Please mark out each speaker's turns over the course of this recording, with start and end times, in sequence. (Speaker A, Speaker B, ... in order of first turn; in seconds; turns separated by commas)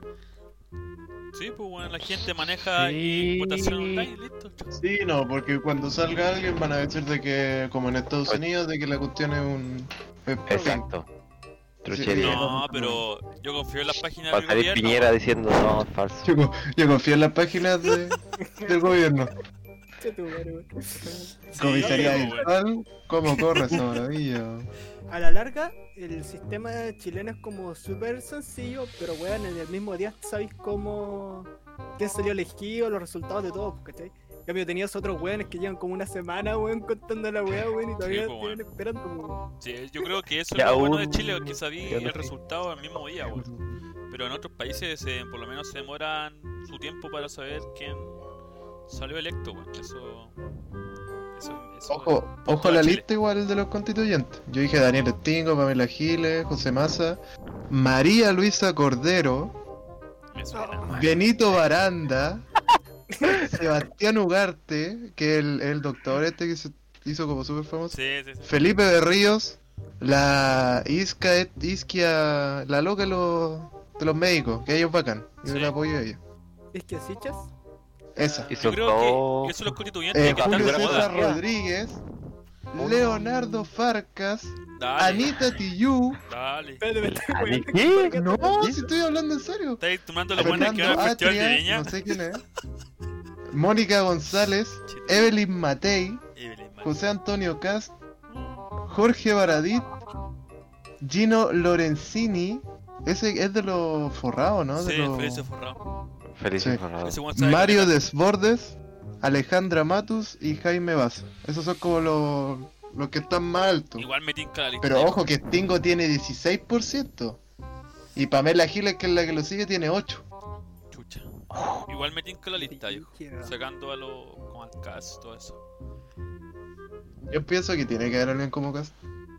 Speaker A: 1.3-4.8, Speaker B: 2.0-4.1, Speaker C: 4.8-10.8, Speaker B: 10.5-11.1, Speaker B: 11.8-12.6, Speaker C: 11.9-13.0, Speaker A: 12.1-15.2, Speaker B: 14.3-16.3, Speaker C: 16.2-19.3, Speaker D: 18.4-19.0, Speaker D: 20.0-22.5, Speaker A: 21.5-22.5, Speaker C: 21.6-24.7, Speaker D: 25.1-39.4, Speaker A: 38.0-38.6, Speaker A: 39.6-43.5, Speaker B: 40.5-42.3, Speaker C: 43.3-43.8, Speaker A: 44.1-48.1, Speaker A: 48.9-50.3, Speaker A: 51.3-53.0, Speaker C: 51.9-59.5, Speaker A: 60.3-61.1, Speaker D: 60.5-60.8, Speaker C: 60.9-62.4, Speaker D: 63.1-63.4, Speaker C: 63.3-76.2, Speaker A: 67.9-68.6, Speaker A: 75.4-75.7, Speaker D: 76.7-77.5, Speaker C: 78.2-78.7, Speaker D: 78.2-78.6, Speaker B: 78.5-81.4, Speaker A: 78.5-81.2, Speaker C: 80.1-82.0, Speaker C: 82.7-86.2, Speaker B: 82.7-83.7, Speaker A: 84.8-85.7, Speaker A: 86.3-86.8, Speaker D: 86.8-88.7, Speaker B: 87.0-88.8, Speaker C: 88.1-89.8, Speaker A: 89.8-92.0, Speaker C: 90.3-92.4, Speaker B: 90.4-91.0, Speaker C: 93.5-96.2, Speaker A: 94.9-95.3, Speaker A: 96.3-97.0, Speaker C: 96.8-97.9, Speaker A: 98.3-98.7, Speaker C: 98.9-99.9, Speaker C: 101.0-105.5, Speaker A: 104.7-105.8, Speaker B: 106.3-107.2, Speaker A: 107.0-108.0, Speaker C: 107.3-114.1, Speaker A: 114.0-115.2, Speaker C: 114.8-117.4, Speaker C: 118.1-120.2, Speaker A: 120.9-121.3, Speaker B: 121.5-121.8, Speaker A: 121.8-125.6, Speaker D: 122.5-123.5, Speaker C: 127.3-128.9